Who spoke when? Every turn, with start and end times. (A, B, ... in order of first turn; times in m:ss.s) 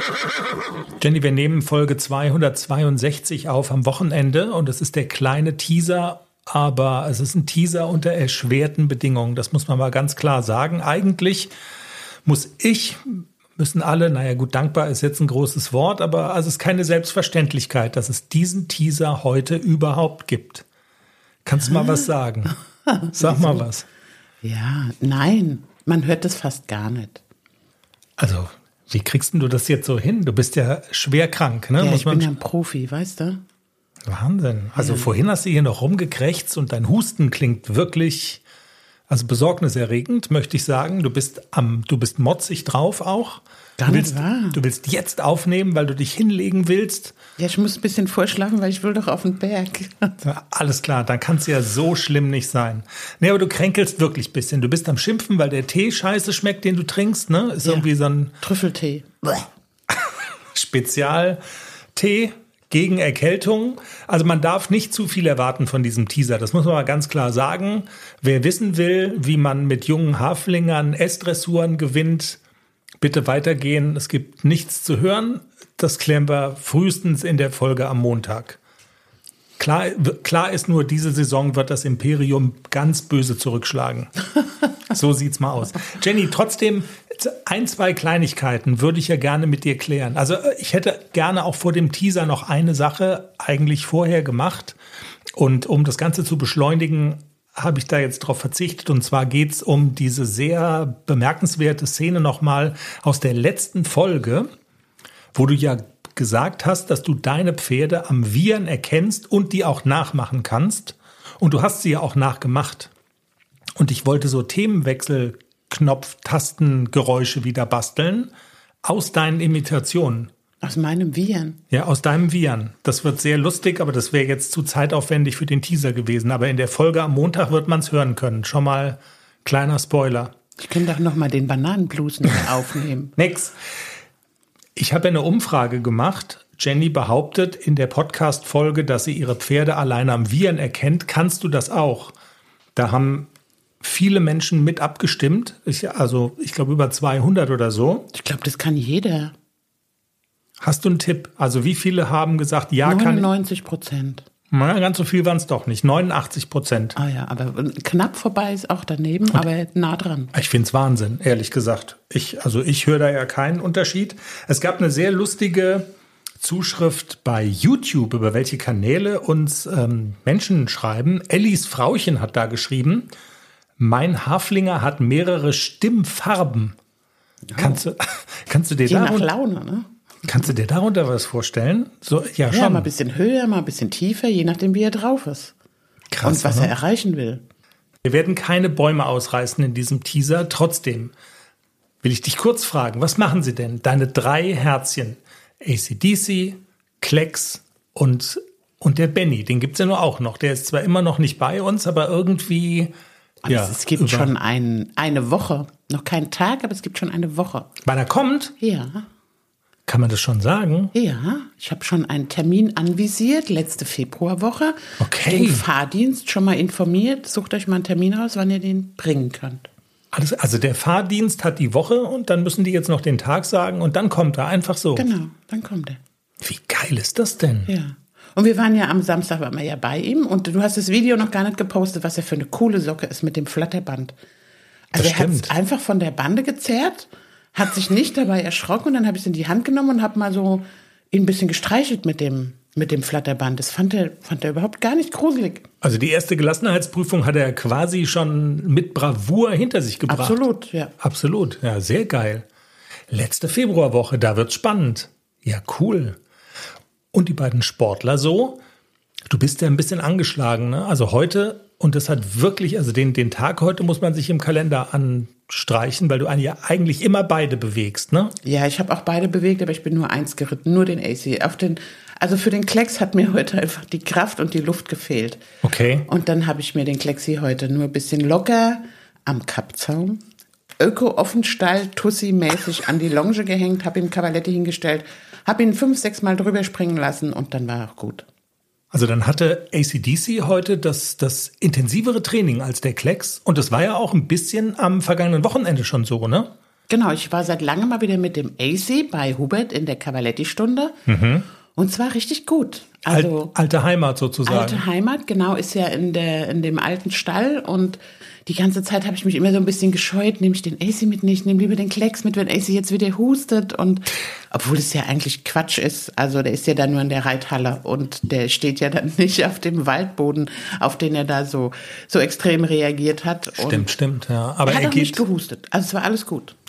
0:01.0-0:11.5 A
0:12.2-0:20.6 A
0:21.4-0:22.6 A
0:22.9-0:23.6 B
0:23.1-0:23.8 A
0:24.4-0:27.2 B
0:28.2-0:32.3 A
0:31.8-0:33.4 B
0:34.0-0:38.4 A
0:34.8-0:35.1 B
0:39.1-0:47.1 A
0:43.8-0:44.6 B
0:47.4-0:50.1 B
0:50.2-0:58.3 A
0:57.6-0:57.9 B
0:58.4-0:59.1 B
1:00.5-1:01.4 A
1:01.9-1:12.4 A
1:13.0-1:18.6 A
1:19.6-1:24.1 A
1:24.9-1:34.8 A
1:35.4-1:44.5 A
1:45.3-1:52.9 A
1:53.8-1:58.3 A
1:58.8-2:00.3 A
2:00.6-2:01.6 B
2:01.7-2:10.3 A
2:10.6-2:13.1 B
2:13.2-2:13.5 A
2:14.8-2:22.1 A
2:22.8-2:23.3 A
2:23.8-2:28.1 A
2:28.1-2:29.3 B
2:30.6-2:33.3 A
2:32.8-2:34.2 B
2:34.5-2:37.0 A
2:37.0-2:40.3 B
2:40.3-2:45.9 A
2:46.4-2:53.1 A
2:53.8-2:56.7 A
2:57.5-2:57.8 B
2:57.6-2:59.3 A
2:58.9-2:59.9 B
3:00.2-3:02.9 A
3:02.5-3:05.5 B
3:06.1-3:06.7 A
3:06.2-3:07.4 B
3:08.0-3:11.1 A
3:12.0-3:22.9 A
3:23.4-3:27.7 B
3:23.5-3:24.3 A
3:27.8-3:28.5 A
3:28.6-3:29.0 B
3:29.9-3:30.9 A
3:30.9-3:39.7 B
3:35.0-3:35.6 A
3:40.1-3:45.1 A
3:45.0-3:46.0 B
3:46.4-3:47.7 A
3:47.7-3:54.1 B
3:54.9-4:05.6 B
3:54.9-3:55.5 A
4:05.8-4:10.4 A
4:10.1-4:10.9 B
4:11.0-4:12.4 A
4:13.1-4:16.2 A
4:17.1-4:18.6 A
4:19.3-4:28.4 A
4:28.4-4:35.4 B
4:35.6-4:36.1 A
4:36.1-4:40.2 B
4:40.8-4:48.2 B
4:48.9-4:56.5 A
4:56.9-5:00.9 B
5:01.1-5:01.4 A
5:01.7-5:03.5 B
5:03.1-5:04.8 A
5:04.4-5:23.9 B
5:23.6-5:25.2 A
5:24.6-5:26.5 B